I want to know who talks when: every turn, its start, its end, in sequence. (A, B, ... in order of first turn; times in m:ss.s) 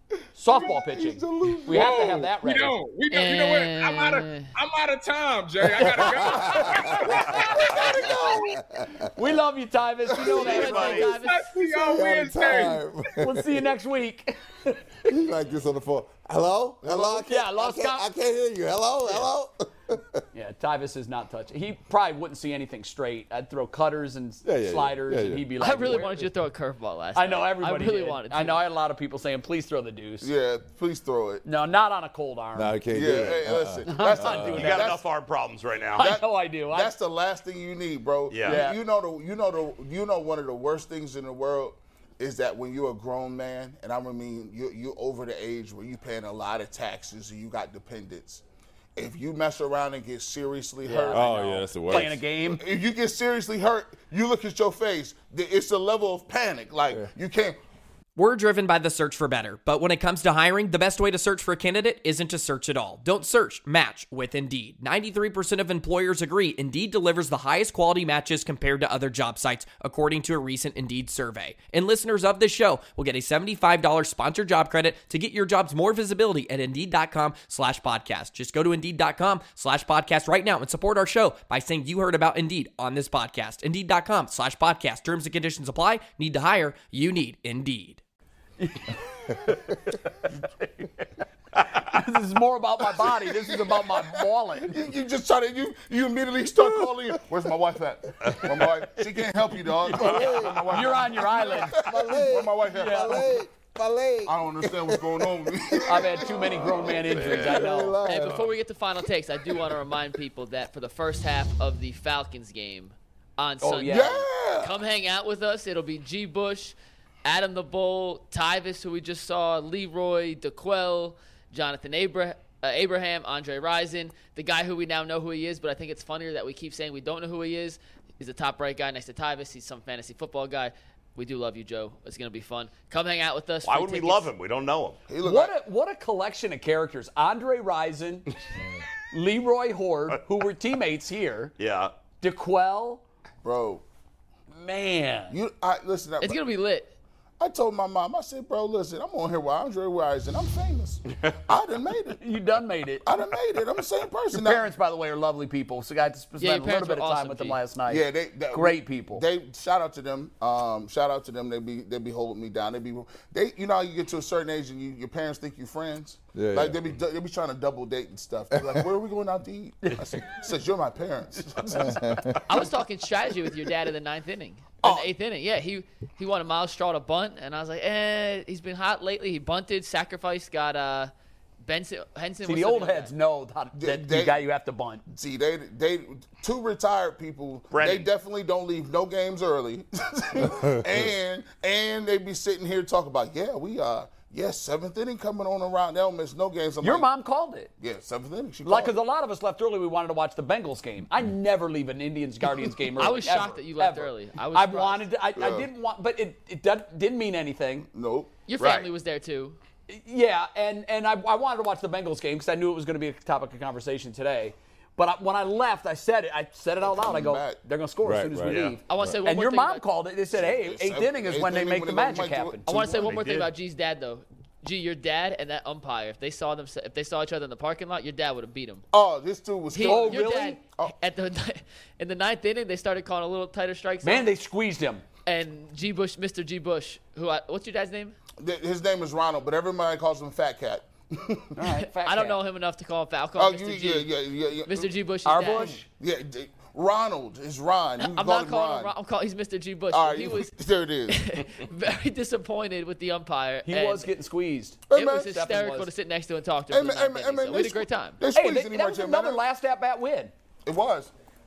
0:00.3-0:02.8 A
0:00.5-0:02.0 B
0:01.7-0:08.6 C
0:03.1-0:04.5 D
0:06.3-0:09.0 B
0:08.0-0:08.3 E
0:09.1-0:11.1 A
0:10.2-0:10.6 E
0:10.4-0:11.5 D
0:10.5-0:11.1 F
0:11.2-0:12.8 C
0:11.6-0:13.7 B
0:13.2-0:14.8 A
0:15.0-0:20.2 B
0:16.9-0:17.2 E
0:17.0-0:18.0 A
0:20.3-0:26.3 A
0:24.4-0:25.5 B
0:25.6-0:28.6 D
0:27.1-0:30.3 A
0:30.2-0:31.4 E
0:31.4-0:33.3 A
0:32.6-0:34.6 B
0:32.9-0:35.0 E
0:33.8-0:35.0 A
0:34.4-0:36.1 F
0:36.0-0:36.9 A
0:36.0-0:48.4 E
0:38.3-0:38.6 F
0:38.4-0:38.8 A
0:49.0-0:57.6 E
0:50.8-0:52.6 A
0:51.1-0:52.2 B
0:58.2-1:28.0 G
1:28.6-1:31.1 A
1:31.6-1:31.9 F
1:31.7-1:34.8 A
1:33.0-1:43.4 E
1:39.9-1:43.3 A
1:39.9-1:46.3 B
1:40.1-1:40.6 F
1:44.2-1:47.2 E
1:45.8-1:48.0 A
1:47.1-1:48.5 F
1:47.3-1:48.4 B
1:48.0-2:14.3 D
1:53.6-1:54.1 A
1:53.9-1:54.8 E
2:13.6-2:15.0 F
2:15.1-2:15.5 E
2:15.2-2:18.3 A
2:19.1-2:21.5 A
2:21.6-2:21.9 F
2:22.2-2:23.0 A
2:23.4-2:23.8 E
2:24.5-2:25.4 A
2:25.3-2:26.4 E
2:26.2-2:26.9 D
2:27.4-2:32.2 E
2:32.2-2:33.0 A
2:33.0-2:34.7 E
2:34.3-2:39.2 A
2:36.4-2:37.6 D
2:37.9-2:52.4 E
2:46.3-2:46.8 B
2:48.5-2:48.8 B
2:51.7-2:52.4 B
2:52.5-3:03.1 D
3:02.4-3:05.0 A
3:03.8-3:04.4 E
3:05.1-3:17.1 E
3:07.7-3:08.1 F
3:16.8-3:17.7 A
3:17.8-3:19.0 E
3:18.6-3:27.9 A
3:22.9-3:25.1 D
3:25.4-3:25.7 E
3:27.9-3:28.3 E
3:28.5-3:29.6 D
3:28.6-3:28.9 F
3:29.9-3:42.7 A
3:36.8-3:37.6 E
3:38.0-3:39.2 B
3:38.5-3:38.8 F
3:38.8-3:39.9 D
3:40.3-3:43.2 E
3:42.7-3:48.8 D
3:43.0-3:43.5 F
3:48.9-3:50.9 E
3:49.7-3:54.3 D
3:49.8-3:50.6 A
3:54.0-3:55.0 A
3:55.2-3:58.2 D
3:58.4-4:01.5 E
4:01.6-4:02.4 A
4:02.0-4:04.1 D
4:03.4-4:04.9 E
4:04.6-4:05.8 D
4:05.2-4:05.8 A
4:05.8-4:08.9 E
4:08.0-4:10.5 D
4:09.9-4:11.2 E
4:11.1-4:14.1 D
4:13.6-4:15.9 A
4:14.9-4:15.3 E
4:14.9-4:18.2 D
4:16.7-4:19.4 E
4:18.3-4:20.3 A
4:20.6-4:21.1 E